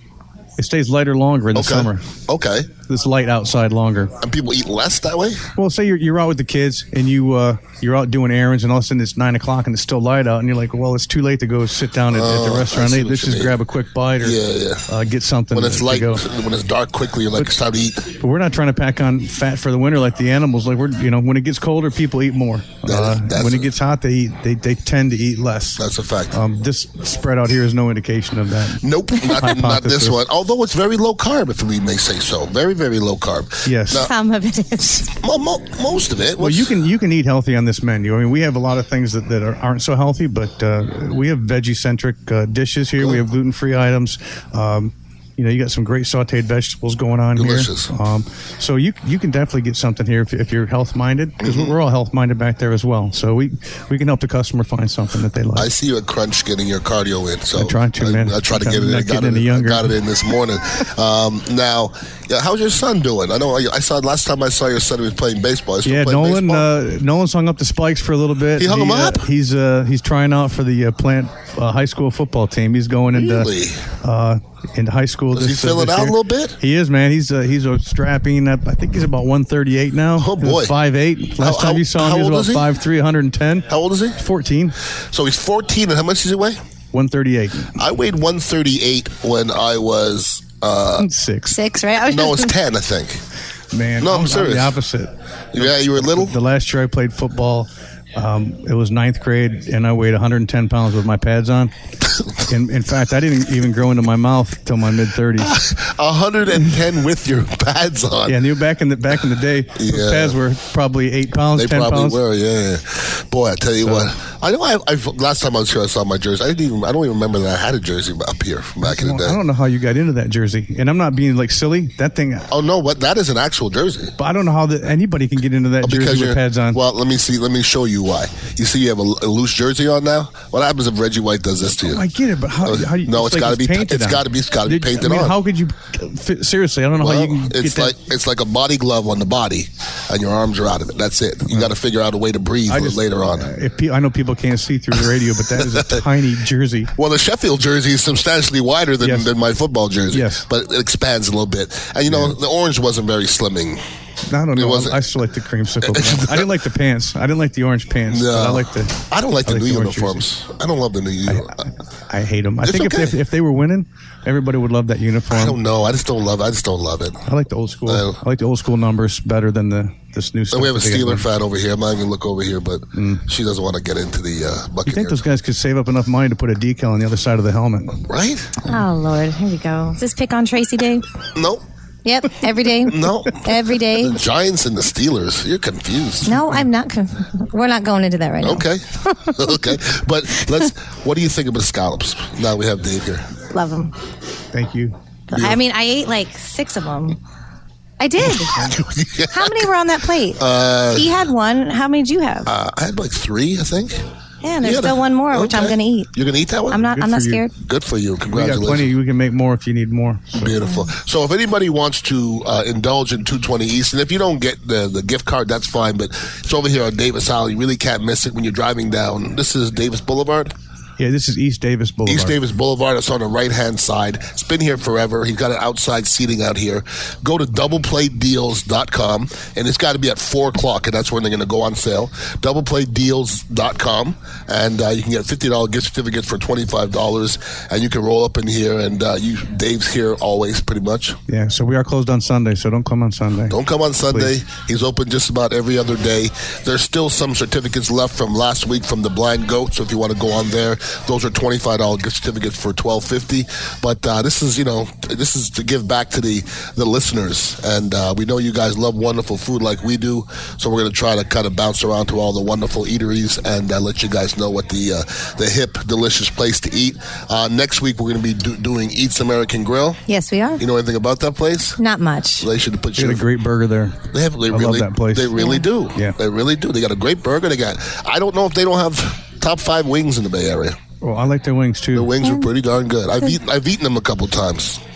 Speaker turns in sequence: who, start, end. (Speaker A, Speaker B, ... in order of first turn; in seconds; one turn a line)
Speaker A: 0.6-2.0
Speaker B: 1.5-2.7
Speaker A: 2.9-4.1
Speaker B: 4.2-5.4
Speaker A: 5.6-14.4
Speaker B: 12.1-13.6
Speaker B: 14.2-14.8
Speaker A: 14.9-16.2
Speaker B: 15.5-18.0
Speaker A: 18.2-30.2
Speaker B: 22.9-23.7
Speaker B: 25.8-26.4
Speaker B: 28.8-34.1
Speaker A: 33.6-34.0
Speaker C: 33.9-35.1
Speaker B: 35.2-36.7
Speaker A: 36.4-55.7
Speaker B: 47.4-47.9
Speaker B: 51.4-51.7
Speaker B: 55.5-66.7
Speaker A: 57.5-60.0
Speaker A: 65.8-73.5
Speaker B: 68.6-69.2
Speaker B: 73.1-73.8
Speaker A: 74.0-84.7
Speaker B: 75.3-76.6
Speaker B: 80.2-80.7
Speaker B: 81.4-82.7
Speaker B: 83.7-84.2
Speaker B: 85.1-86.6
Speaker A: 86.9-87.7
Speaker B: 87.8-91.1
Speaker A: 91.0-91.6
Speaker C: 91.5-92.5
Speaker B: 92.1-93.2
Speaker A: 93.7-101.7
Speaker B: 94.0-94.7
Speaker B: 95.5-96.4
Speaker A: 102.4-105.5
Speaker B: 105.4-108.4
Speaker A: 108.2-112.2
Speaker B: 109.8-110.4
Speaker B: 111.5-119.4
Speaker A: 113.8-114.1
Speaker A: 118.8-122.5
Speaker B: 122.5-124.1
Speaker A: 124.2-126.8
Speaker B: 125.8-132.1
Speaker A: 131.8-137.9
Speaker B: 132.6-135.4
Speaker B: 136.9-143.5
Speaker A: 142.7-146.9
Speaker B: 145.5-146.0
Speaker B: 147.0-153.8
Speaker A: 149.0-149.3
Speaker A: 150.1-150.4
Speaker A: 152.1-152.3
Speaker A: 154.3-160.2
Speaker B: 154.5-155.0
Speaker B: 155.8-156.5
Speaker B: 158.1-161.7
Speaker A: 161.3-165.6
Speaker B: 162.6-163.2
Speaker B: 165.3-167.2
Speaker A: 167.3-171.2
Speaker B: 167.8-168.2
Speaker B: 170.5-175.2
Speaker A: 172.9-173.2
Speaker A: 174.8-178.0
Speaker B: 178.0-178.5
Speaker C: 178.7-181.0
Speaker B: 181.3-181.6
Speaker C: 182.0-184.2
Speaker B: 182.9-186.4
Speaker C: 186.2-189.4
Speaker B: 188.4-193.2
Speaker C: 193.5-193.9
Speaker A: 194.5-194.9
Speaker C: 195.3-197.2
Speaker B: 195.3-195.6
Speaker C: 198.0-198.7
Speaker B: 198.4-199.7
Speaker C: 199.3-200.4
Speaker B: 200.3-201.1
Speaker C: 200.9-202.5
Speaker B: 202.4-204.0
Speaker C: 204.4-206.1
Speaker B: 204.6-206.9
Speaker C: 206.7-207.5
Speaker A: 206.8-207.4
Speaker B: 207.6-208.9
Speaker A: 208.2-210.6
Speaker B: 210.3-220.5
Speaker A: 221.0-222.4
Speaker B: 222.1-241.2
Speaker A: 241.3-244.3
Speaker B: 243.5-270.0
Speaker C: 270.1-270.6
Speaker B: 270.6-271.8
Speaker C: 271.8-272.5
Speaker B: 272.4-273.2
Speaker A: 272.9-275.4
Speaker B: 274.1-280.8
Speaker C: 275.4-275.6
Speaker A: 281.0-282.1
Speaker B: 281.9-284.8
Speaker C: 282.2-282.5